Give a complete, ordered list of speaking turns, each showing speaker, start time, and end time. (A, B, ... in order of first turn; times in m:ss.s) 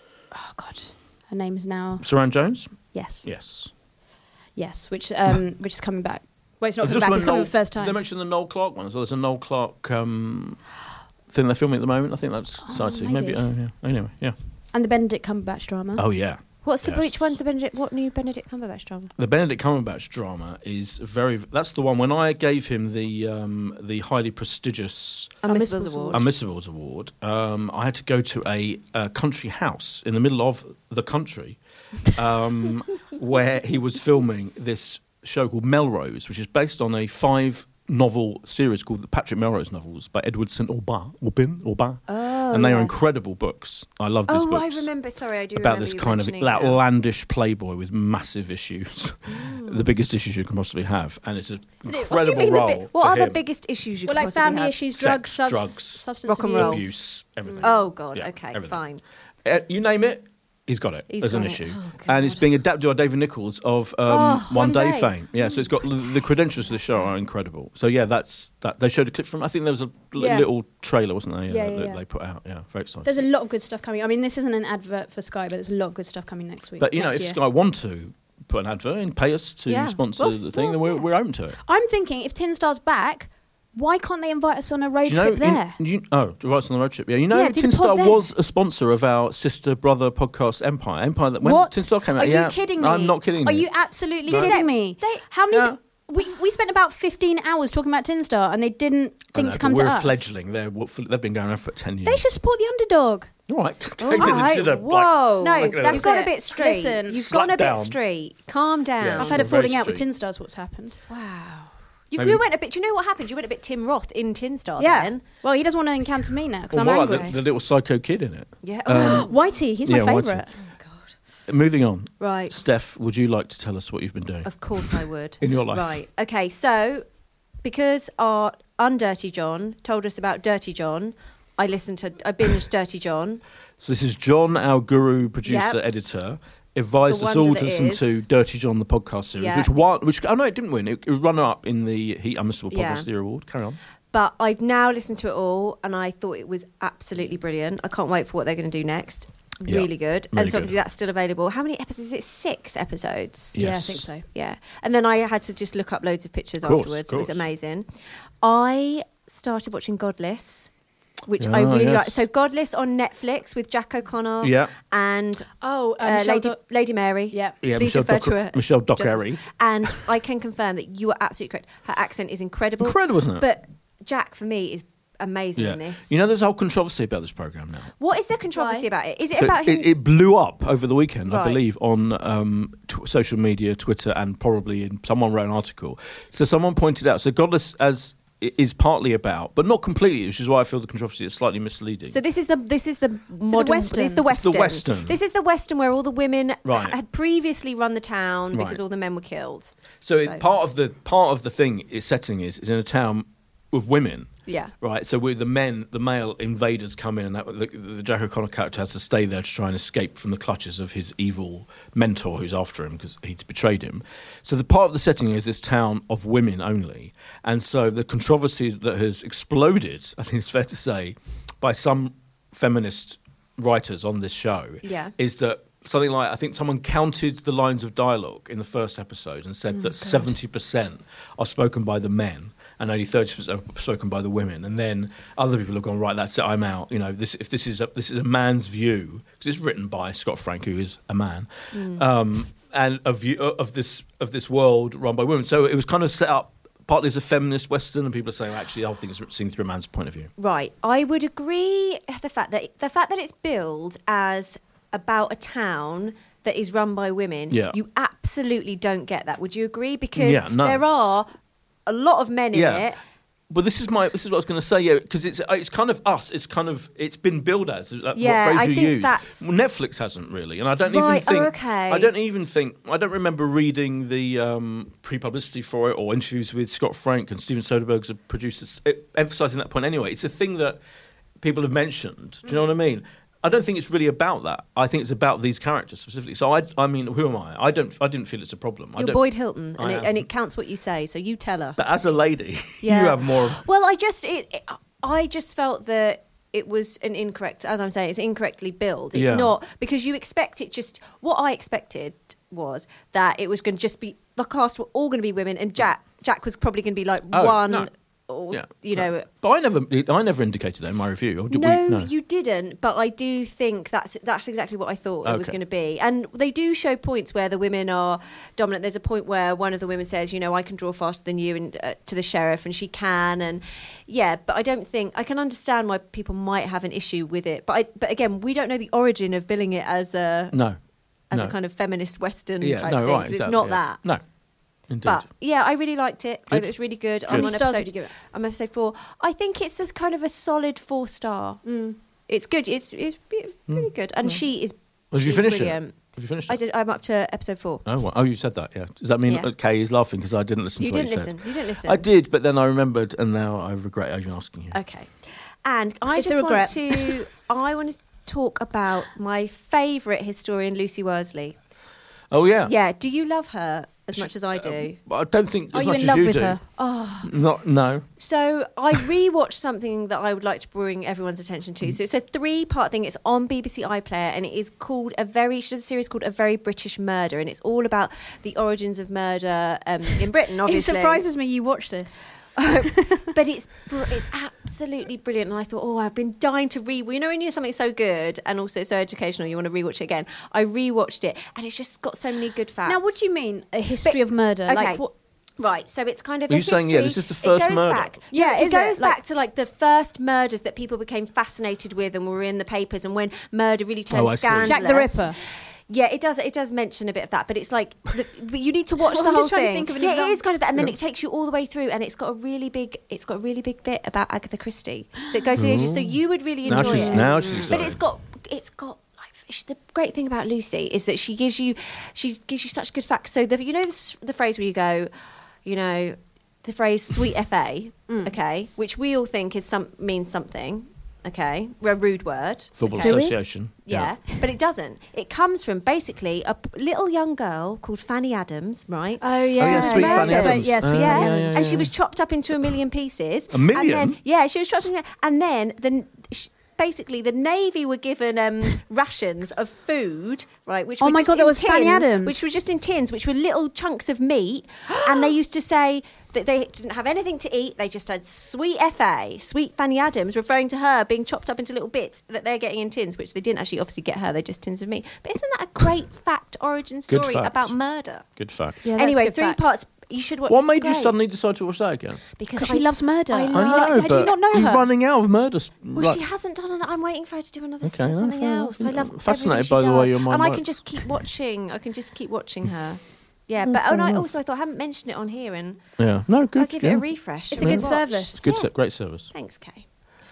0:00.3-0:02.0 A
0:02.0-0:03.7 B
0:02.9-0:03.3 A
0:04.6-0:08.0 A
0:06.8-0:10.6 B
0:11.3-0:14.4 B
0:12.6-0:13.4 A
0:14.7-0:16.0 A
0:16.0-0:17.4 B
0:16.6-0:19.1 C
0:19.2-0:25.4 B
0:25.4-0:26.2 C
0:25.4-0:26.3 A
0:26.1-0:44.9 B
0:42.1-0:42.9 C
0:44.3-0:46.8 C
0:45.6-0:53.4 B
0:49.3-0:49.9 C
0:51.9-0:54.8 C
0:54.1-0:56.9 A
0:54.9-0:58.8 B
0:56.3-0:56.9 C
0:57.6-0:59.0 C
0:59.4-1:13.1 B
1:01.1-1:02.4 C
1:04.1-1:04.8 C
1:04.5-1:05.1 A
1:10.2-1:10.5 A
1:11.5-1:12.0 A
1:13.0-1:17.4 A
1:16.8-1:21.6 B
1:19.7-1:20.8 C
1:21.6-1:25.8 A
1:25.0-1:33.7 B
1:27.3-1:28.2 A
1:31.4-1:40.4 A
1:34.3-1:34.6 B
1:34.3-1:35.2 C
1:35.5-1:35.8 B
1:39.3-1:42.3 B
1:42.0-1:43.3 A
1:43.5-1:46.2 B
1:44.0-1:49.5 C
1:44.2-1:44.6 A
1:45.4-1:47.3 A
1:47.3-1:48.0 B
1:49.0-1:50.0 B
1:49.2-1:51.0 A
1:51.1-1:55.2 C
1:52.2-1:52.4 B
1:54.8-1:57.3 A
1:56.7-1:59.3 B
1:57.0-1:57.4 C
1:58.6-1:59.3 C
1:58.9-2:00.6 A
1:59.8-2:00.5 B
2:00.6-2:01.1 C
2:01.5-2:06.0 B
2:02.2-2:02.6 C
2:04.4-2:07.0 C
2:07.6-2:13.4 C
2:13.8-2:23.8 B
2:15.4-2:15.8 C
2:17.1-2:18.2 C
2:19.4-2:19.7 C
2:22.7-2:23.1 C
2:24.1-2:33.6 C
2:29.7-2:30.8 B
2:33.5-2:34.1 B
2:33.6-2:34.3 A
2:34.3-2:37.9 C
2:36.6-2:37.4 B
2:38.4-2:40.7 C
2:41.3-2:56.1 C
2:41.4-2:42.2 B
2:44.4-2:44.7 B
2:45.6-2:46.6 A
2:47.6-2:50.0 B
2:52.8-2:53.5 B
2:55.6-2:57.9 B
2:58.0-2:59.9 C
2:58.6-2:58.9 A
2:59.3-3:12.2 B
3:01.3-3:01.6 C
3:12.1-3:20.4 C
3:13.4-3:14.2 A
3:14.3-3:15.2 B
3:16.6-3:17.0 B
3:18.5-3:18.8 B
3:20.0-3:24.3 B
3:24.5-3:24.7 C
3:24.8-4:10.3 B
3:44.8-3:45.1 C
4:01.7-4:02.0 C
4:10.4-4:21.3 C
4:17.5-4:17.8 B
4:20.2-4:20.8 B
4:21.9-4:23.0 C
4:22.5-4:22.9 B
4:23.5-4:40.8 B
4:28.2-4:29.4 C
4:30.9-4:32.1 C
4:41.4-4:49.2 B
4:49.0-4:52.0 C
4:49.8-4:50.3 B
4:51.8-4:53.6 B
4:52.8-5:09.3 C
4:59.1-4:59.6 B
5:07.3-5:07.9 B
5:08.5-5:12.1 B
5:11.5-5:30.6 C
5:15.2-5:15.6 B
5:30.5-5:30.8 B
5:31.3-5:34.0 C
5:32.6-5:34.2 B
5:34.9-5:35.2 B
5:35.0-5:41.6 C
5:37.3-5:38.1 A
5:41.6-5:42.0 A
5:42.3-5:45.9 C
5:45.1-5:46.6 B
5:46.5-5:47.8 C
5:47.8-5:54.8 B
5:50.8-5:52.0 C
5:54.7-5:55.1 C
5:55.6-6:01.6 C
5:56.2-5:57.2 A
6:02.3-6:02.7 B
6:02.6-6:05.0 C
6:04.2-6:06.6 B
6:05.7-6:06.6 A
6:06.8-6:07.3 C
6:07.2-6:08.0 B
6:08.2-6:21.3 C
6:20.6-6:22.3 A
6:22.6-6:33.3 C
6:22.8-6:23.3 A
6:32.9-6:35.1 A
6:34.0-6:35.0 C
6:35.6-6:45.4 C
6:36.5-6:38.2 B
6:38.3-6:39.2 A
6:44.1-6:44.8 B
6:44.6-6:45.4 A
6:45.9-7:05.1 C
6:49.0-6:50.4 A
6:55.6-6:58.0 B
6:56.7-6:57.7 A
7:05.6-7:13.3 C
7:08.1-7:08.3 A
7:12.8-7:14.1 B
7:13.0-7:13.4 A
7:13.9-7:48.3 C
7:19.2-7:21.7 A
7:19.6-7:21.9 B
7:23.5-7:24.2 B
7:31.0-7:32.4 A
7:47.1-7:47.7 B
7:48.4-7:48.8 B
7:48.8-7:49.7 A
7:48.8-7:51.2 C
7:50.5-7:52.2 B
7:52.4-7:54.8 C
7:52.6-7:54.9 A
7:53.5-7:56.2 B
7:56.0-8:05.8 C
7:57.8-8:01.1 B
8:03.7-8:04.3 B
8:06.0-8:07.0 B
8:06.6-8:08.7 C
8:07.5-8:08.4 A
8:07.6-8:09.3 B
8:09.3-8:09.8 C